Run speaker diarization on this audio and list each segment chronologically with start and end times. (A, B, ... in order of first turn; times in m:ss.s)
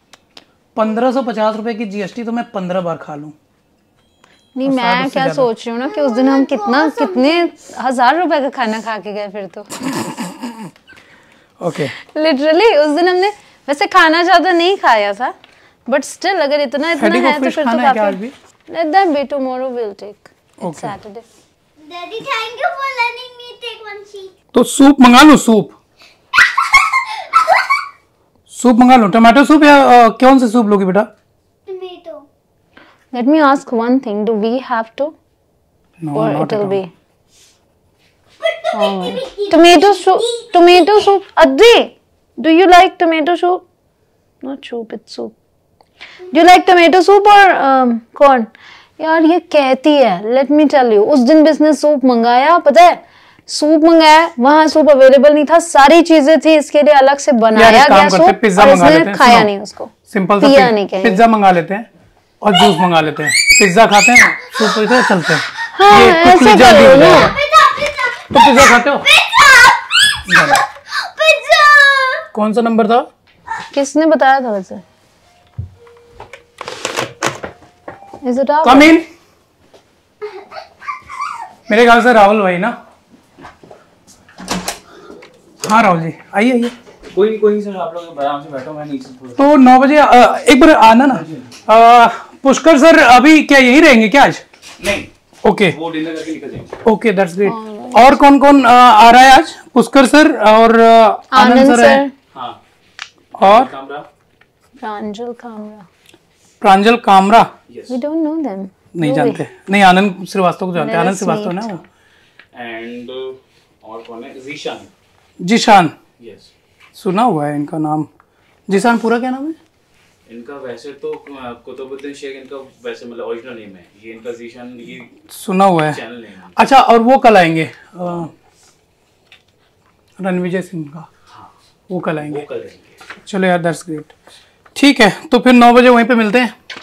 0:00.8-0:03.4 A
0:04.6-0:09.8 B
0:04.6-0:05.5 A
0:05.9-0:07.4 C
0:11.6-0:11.9 A
0:12.0-0:15.4 B
0:15.9-0:21.3 B
0:17.0-0:18.4 A
0:20.6-0:21.0 A
0:21.8-0:24.3 C
0:24.5-0:25.8 A
0:28.5-0:31.1 A
0:31.7-0:32.3 C
0:33.1-0:35.2 B
0:36.0-0:36.8 A
0:36.1-0:36.9 B
0:38.4-0:40.6 C
0:38.7-0:43.6 B
0:44.4-0:45.4 B
0:46.3-1:01.2 B
0:57.6-0:59.5 A
1:00.1-1:01.9 A
1:02.4-1:07.4 A
1:05.7-1:07.4 B
1:07.1-1:12.3 C
1:08.3-1:09.1 A
1:10.3-1:10.6 A
1:12.3-1:13.1 A
1:13.7-1:14.8 B
1:18.2-1:19.0 B
1:18.6-1:19.1 A
1:21.7-1:22.8 A
1:25.6-1:26.8 A
1:27.1-1:29.4 D
1:29.4-1:34.4 A
1:31.1-1:31.6 D
1:34.8-1:35.1 D
1:35.4-1:35.8 A
1:35.7-1:36.7 D
1:36.8-1:42.0 A
1:37.4-1:38.2 B
1:41.3-1:42.1 B
1:42.3-1:42.6 D
1:43.4-1:43.7 A
1:43.4-1:44.1 D
1:44.8-1:45.9 B
1:46.6-1:47.5 A
1:47.7-1:48.0 D
1:47.9-1:49.4 B
1:49.0-1:51.8 A
1:50.8-1:51.8 B
1:52.5-1:54.9 D
1:55.4-1:56.0 A
1:56.2-1:56.5 D
1:57.0-1:58.1 A
1:58.7-1:59.6 A
2:00.3-2:05.1 D
2:05.2-2:06.0 A
2:05.9-2:06.6 D
2:06.6-2:08.3 A
2:10.2-2:11.1 A
2:11.9-2:12.5 A
2:12.2-2:13.0 D
2:13.2-2:14.1 A
2:14.8-2:16.6 A